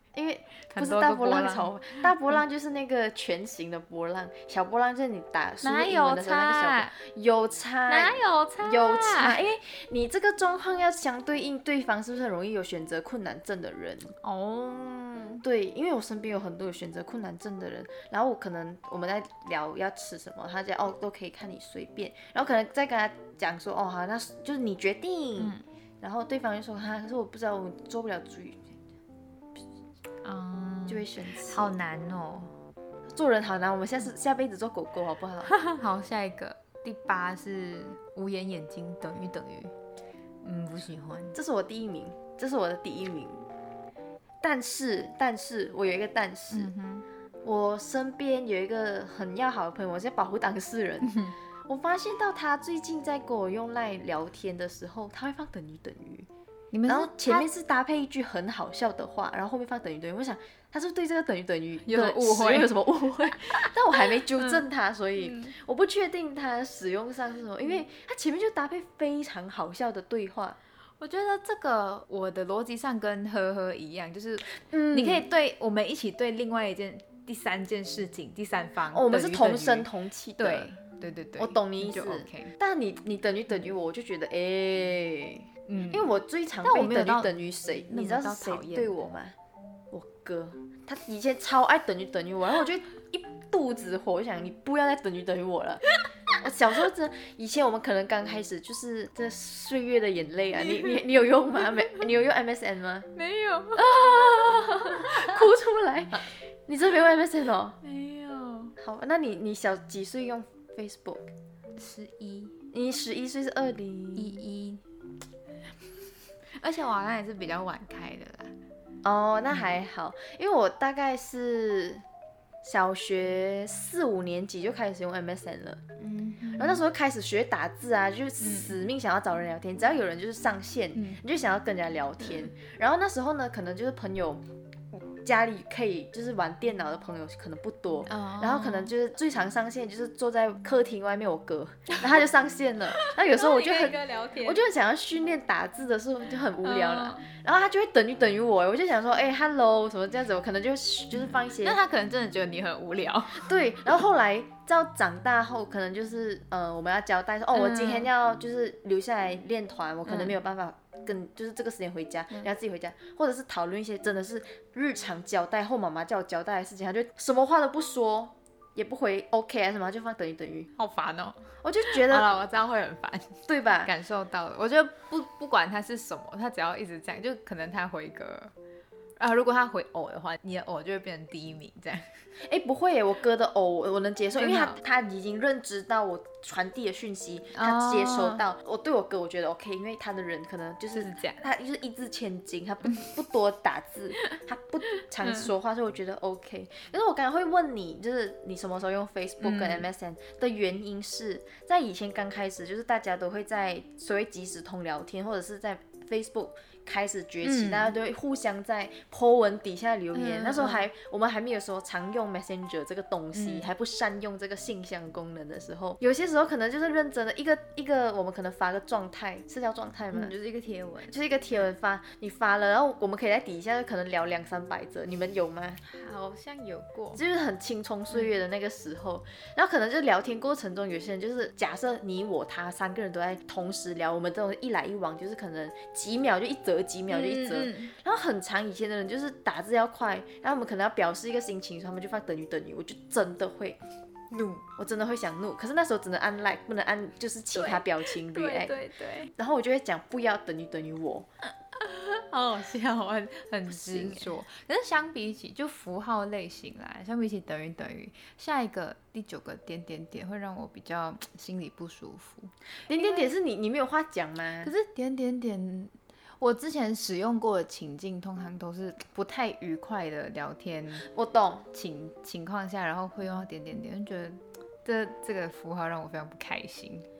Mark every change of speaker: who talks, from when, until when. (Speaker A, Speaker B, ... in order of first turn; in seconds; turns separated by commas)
Speaker A: 0.1-14.1, Speaker B: 0.7-2.1, Speaker B: 5.6-6.9, Speaker B: 7.9-9.4, Speaker B: 14.2-15.4, Speaker A: 15.4-28.6, Speaker B: 25.4-25.6, Speaker B: 30.2-32.5, Speaker A: 30.9-31.7, Speaker A: 33.1-35.5, Speaker B: 35.5-39.7, Speaker B: 40.4-41.4, Speaker A: 41.3-43.5, Speaker A: 44.4-46.7, Speaker B: 46.5-47.0, Speaker A: 47.4-56.3, Speaker B: 51.1-51.3, Speaker B: 56.7-57.5, Speaker A: 56.9-70.6, Speaker B: 61.8-64.6, Speaker B: 65.2-65.5, Speaker B: 71.0-82.5, Speaker A: 74.7-75.2, Speaker A: 78.9-80.7, Speaker A: 81.4-89.4, Speaker B: 85.7-86.1, Speaker B: 86.6-87.3, Speaker B: 87.9-89.0, Speaker A: 89.9-95.8, Speaker A: 96.4-103.1, Speaker B: 100.6-101.0, Speaker B: 103.2-105.4, Speaker A: 103.8-107.8, Speaker B: 107.8-108.8, Speaker A: 108.8-111.3, Speaker B: 111.8-112.6, Speaker A: 112.7-114.4, Speaker B: 114.2-114.8, Speaker B: 116.6-118.5, Speaker A: 119.0-122.0, Speaker A: 122.6-125.8, Speaker B: 126.0-126.8, Speaker A: 126.6-151.8, Speaker B: 128.4-128.7, Speaker B: 131.0-131.2, Speaker B: 138.1-138.9, Speaker B: 142.9-144.6, Speaker B: 146.6-147.2, Speaker B: 151.1-153.5, Speaker A: 153.3-170.7, Speaker B: 157.5-158.1, Speaker B: 160.1-160.3, Speaker B: 170.8-178.5, Speaker A: 171.6-172.3, Speaker A: 173.5-173.9, Speaker B: 179.2-182.2, Speaker A: 182.4-220.3, Speaker B: 184.4-184.8, Speaker B: 187.6-188.4, Speaker B: 190.9-191.4, Speaker B: 195.0-195.5, Speaker B: 199.4-199.9, Speaker B: 207.4-207.9, Speaker B: 210.1-210.9, Speaker B: 213.3-213.7, Speaker B: 220.1-221.2, Speaker A: 221.1-225.8, Speaker B: 225.8-227.2, Speaker A: 227.2-243.8, Speaker B: 237.1-237.9, Speaker B: 244.3-244.7, Speaker A: 244.8-248.8, Speaker B: 247.5-249.3, Speaker A: 249.3-251.3, Speaker B: 251.7-263.2, Speaker A: 253.7-254.3, Speaker A: 262.9-264.7, Speaker B: 264.6-271.1, Speaker A: 271.1-271.7, Speaker B: 271.7-277.1